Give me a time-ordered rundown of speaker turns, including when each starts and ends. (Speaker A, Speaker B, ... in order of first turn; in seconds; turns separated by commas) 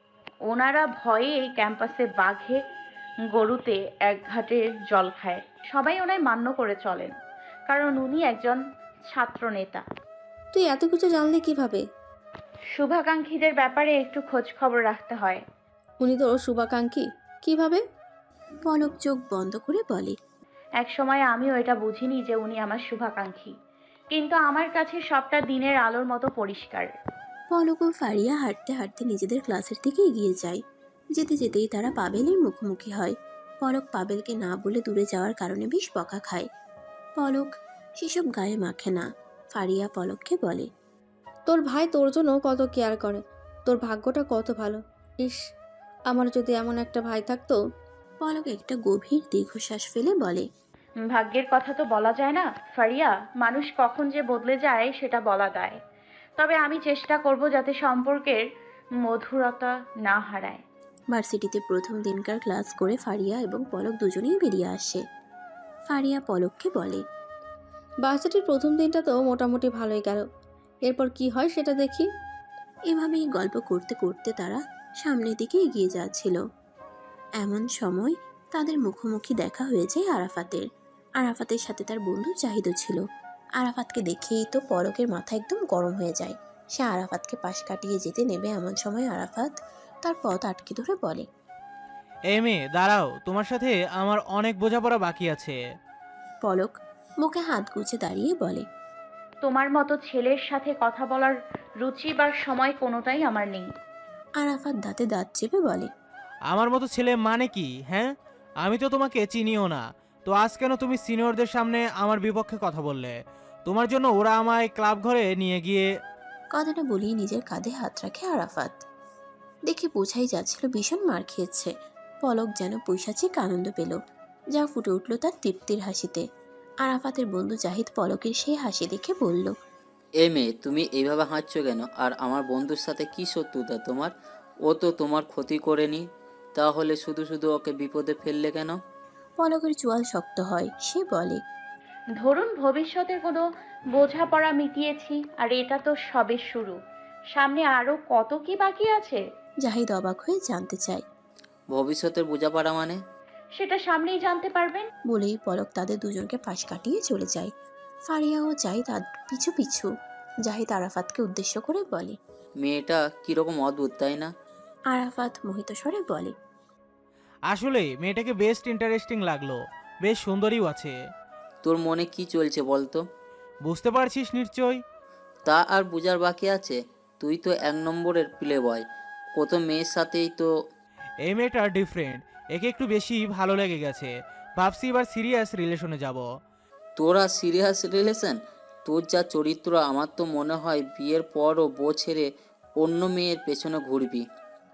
Speaker A: 0.5-2.6, Speaker A: 3.3-7.1, Speaker A: 7.7-9.8, Speaker B: 10.5-11.8, Speaker A: 12.8-15.4, Speaker B: 16.0-17.8, Speaker C: 18.7-20.2, Speaker A: 20.8-23.5, Speaker A: 24.1-26.9, Speaker C: 27.5-30.6, Speaker C: 31.1-36.5, Speaker C: 37.2-40.7, Speaker B: 41.5-45.4, Speaker B: 46.1-47.6, Speaker C: 48.2-50.5, Speaker A: 51.1-55.8, Speaker A: 56.4-58.5, Speaker A: 59.0-60.6, Speaker C: 61.1-65.0, Speaker C: 65.9-67.0, Speaker B: 68.0-70.2, Speaker B: 70.9-72.1, Speaker C: 72.9-76.4, Speaker C: 77.4-80.7, Speaker C: 81.2-83.0, Speaker C: 83.6-91.3, Speaker D: 92.3-95.6, Speaker C: 96.4-98.7, Speaker A: 99.5-103.7, Speaker C: 104.4-105.9, Speaker D: 106.5-108.1, Speaker D: 108.6-115.9, Speaker C: 116.5-118.8, Speaker C: 119.7-124.0, Speaker C: 124.5-126.3, Speaker C: 126.8-129.6, Speaker E: 130.2-134.1, Speaker E: 134.7-138.8, Speaker C: 139.4-141.4, Speaker A: 142.2-146.8, Speaker A: 147.3-149.2, Speaker C: 149.6-151.0, Speaker E: 151.7-153.0, Speaker A: 153.6-154.9, Speaker C: 155.1-157.5, Speaker C: 158.1-159.9, Speaker C: 160.4-162.2, Speaker E: 162.6-164.3, Speaker C: 164.9-166.3, Speaker D: 167.5-171.0, Speaker E: 171.6-173.1, Speaker D: 173.7-174.8, Speaker E: 175.4-178.8, Speaker E: 179.4-180.5, Speaker D: 181.3-186.2, Speaker E: 187.0-192.3, Speaker E: 192.8-194.2